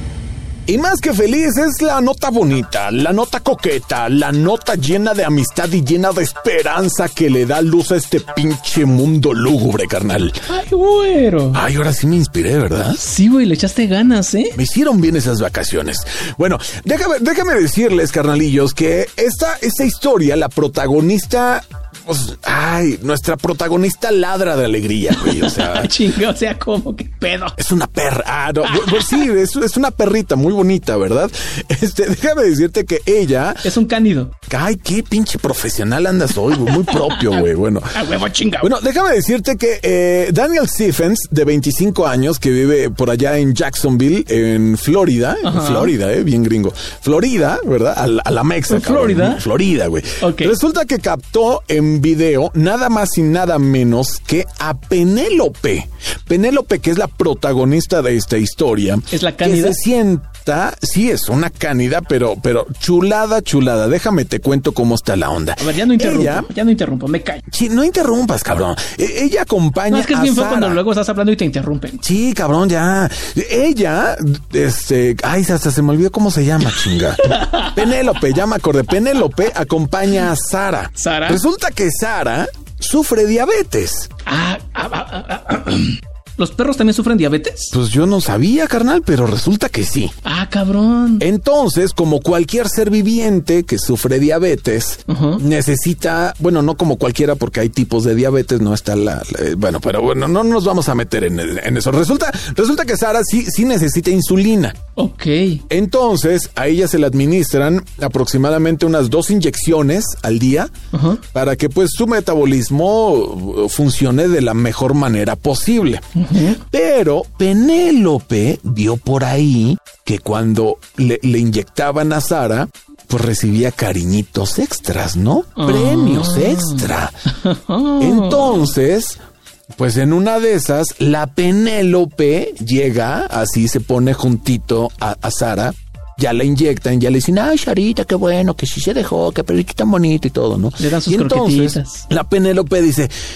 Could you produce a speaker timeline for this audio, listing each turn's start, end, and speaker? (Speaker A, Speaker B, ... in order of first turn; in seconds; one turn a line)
Speaker A: 0.7-10.4
Speaker B: 10.5-11.6
Speaker A: 11.5-13.0
Speaker B: 13.0-14.6
Speaker A: 14.6-25.9
Speaker B: 25.2-27.6
Speaker A: 27.6-33.7
Speaker B: 28.7-29.2
Speaker B: 33.6-34.4
Speaker A: 34.5-66.5
Speaker B: 36.5-38.7
Speaker B: 45.4-45.9
Speaker B: 48.7-49.5
Speaker B: 50.2-50.6
Speaker B: 59.1-59.8
Speaker B: 65.6-67.4
Speaker A: 67.5-70.8
Speaker B: 69.9-72.0
Speaker A: 72.0-84.1
Speaker B: 77.2-77.8
Speaker B: 81.0-81.4
Speaker B: 84.2-87.8
Speaker A: 87.7-90.1
Speaker B: 90.2-91.2
Speaker A: 91.2-104.8
Speaker B: 95.1-95.4
Speaker B: 105.0-105.6
Speaker A: 105.7-110.7
Speaker B: 110.9-111.2
Speaker A: 111.2-116.0
Speaker B: 116.2-116.6
Speaker A: 116.6-127.2
Speaker B: 125.6-128.7
Speaker A: 128.0-129.2
Speaker A: 129.8-143.1
Speaker B: 140.8-142.0